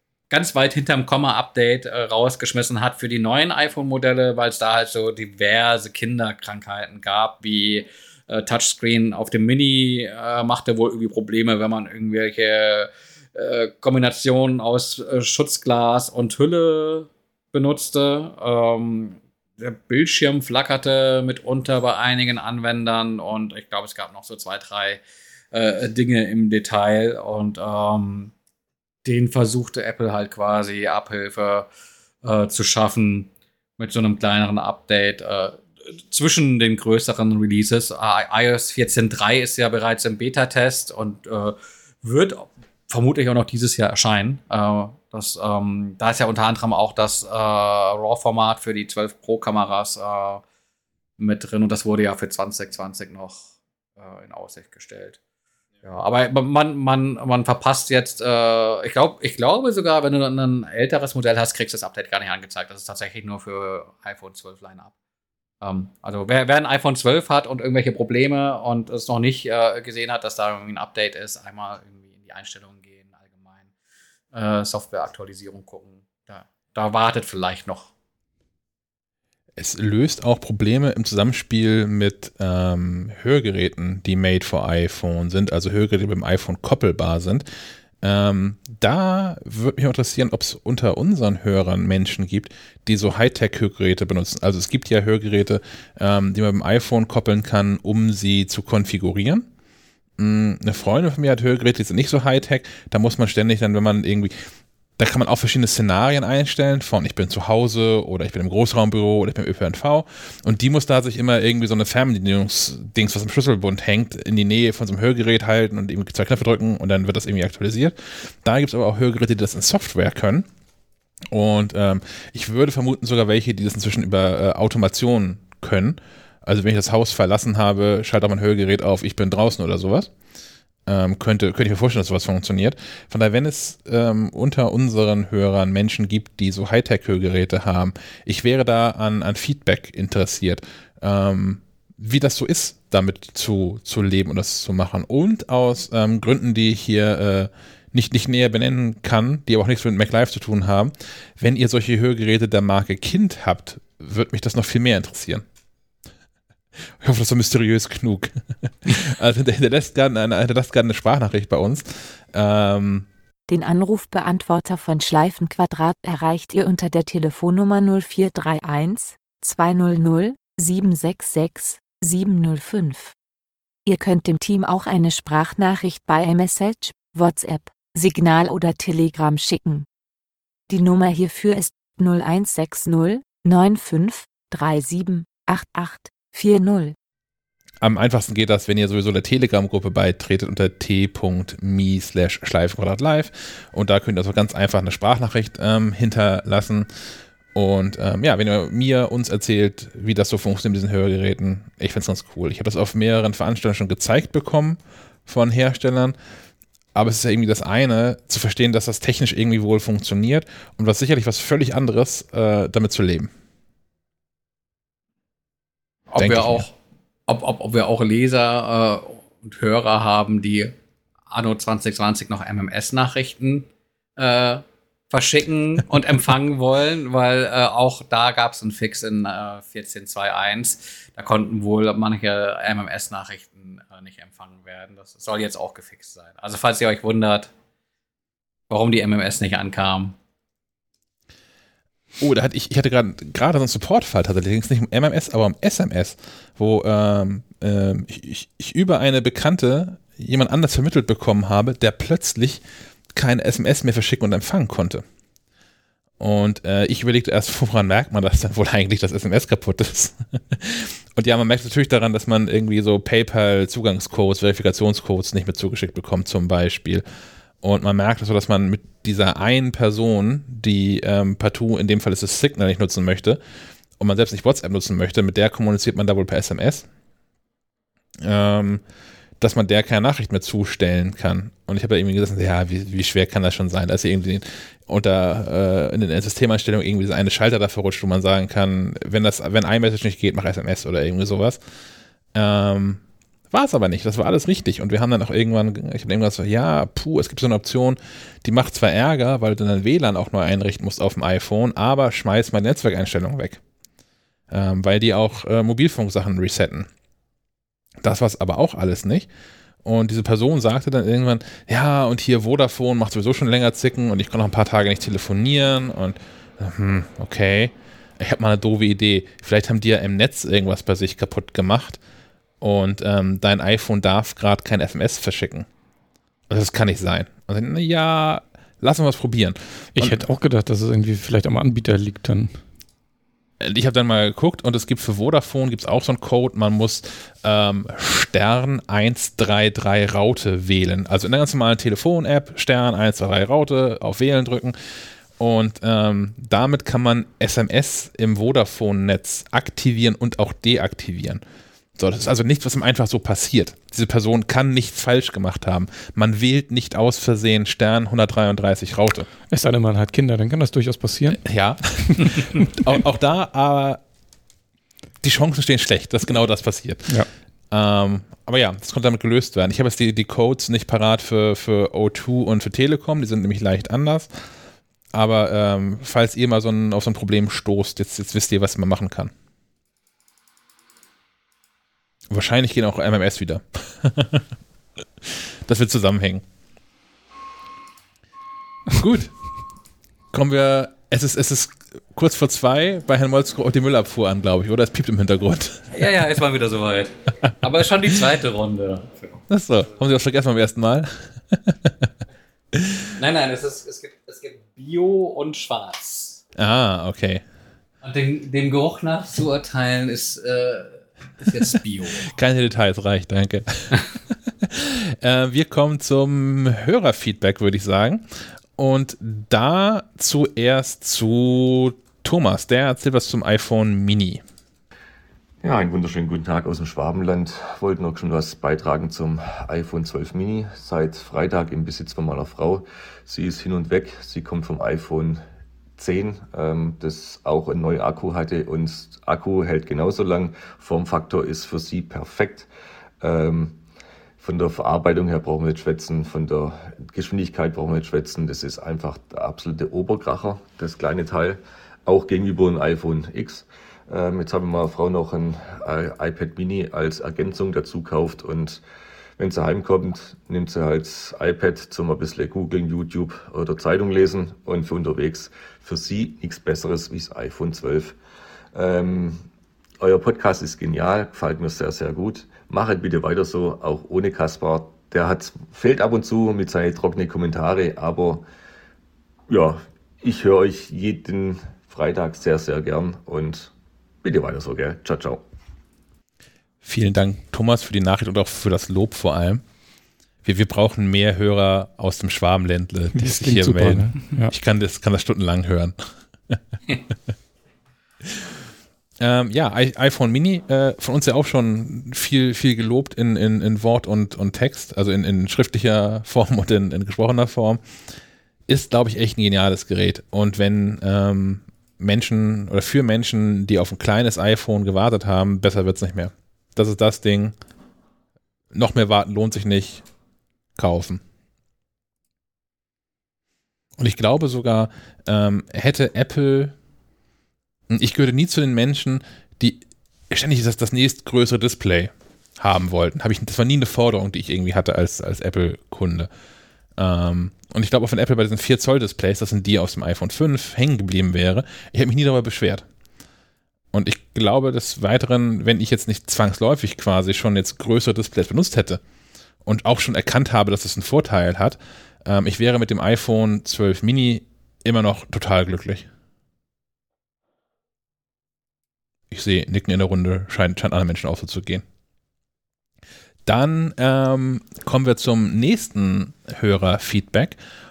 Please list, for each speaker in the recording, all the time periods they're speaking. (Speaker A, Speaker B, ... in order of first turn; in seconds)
Speaker A: 0.3-25.0, 25.5-28.3, 29.0-31.7, 32.2-50.4, 51.2-55.2, 55.8-64.9, 65.6-73.7, 74.3-77.9, 216.1-216.7, 217.3-220.7, 221.3-223.7, 224.2-237.5, 238.7-240.2, 395.9-399.4, 403.2-406.4, 408.0-412.3
Speaker B: 79.6-87.4, 88.0-99.5, 100.2-104.3, 105.0-120.5, 121.3-130.1, 130.9-155.4, 157.0-163.1, 187.8-196.9, 197.5-206.2, 206.9-213.3, 216.2-216.6, 242.2-252.6, 253.1-255.0, 256.2-267.0, 267.6-273.4, 274.0-276.9, 278.2-278.8, 279.4-291.6, 292.3-303.6, 304.5-306.9, 308.0-309.3, 309.8-322.0, 322.6-325.7, 326.5-330.2, 333.6-344.7, 345.4-351.4, 352.0-359.3, 361.4-364.0, 365.2-367.1, 367.7-374.3, 375.1-379.3, 382.3-384.4, 385.2-386.4, 388.9-389.3, 390.3-395.9, 399.5-402.1, 402.7-403.0, 406.6-407.4, 412.2-418.2, 418.8-424.4, 486.8-489.6, 490.4-495.9, 499.2-507.8, 508.7-517.5, 518.7-520.0, 520.8-521.2, 524.0-526.7, 527.9-536.3, 537.0-542.8, 543.9-549.0, 549.6-556.1, 559.3-561.8, 563.5-567.6
Speaker C: 163.5-173.1, 173.8-179.8, 180.7-186.9
Speaker D: 329.9-332.6, 359.5-361.4, 362.0-362.4, 493.1-494.5
Speaker E: 425.6-435.4, 436.0-442.7, 443.2-443.8, 444.4-458.8, 459.4-468.2, 468.7-469.5, 470.0-478.4, 479.5-483.7, 484.2-485.4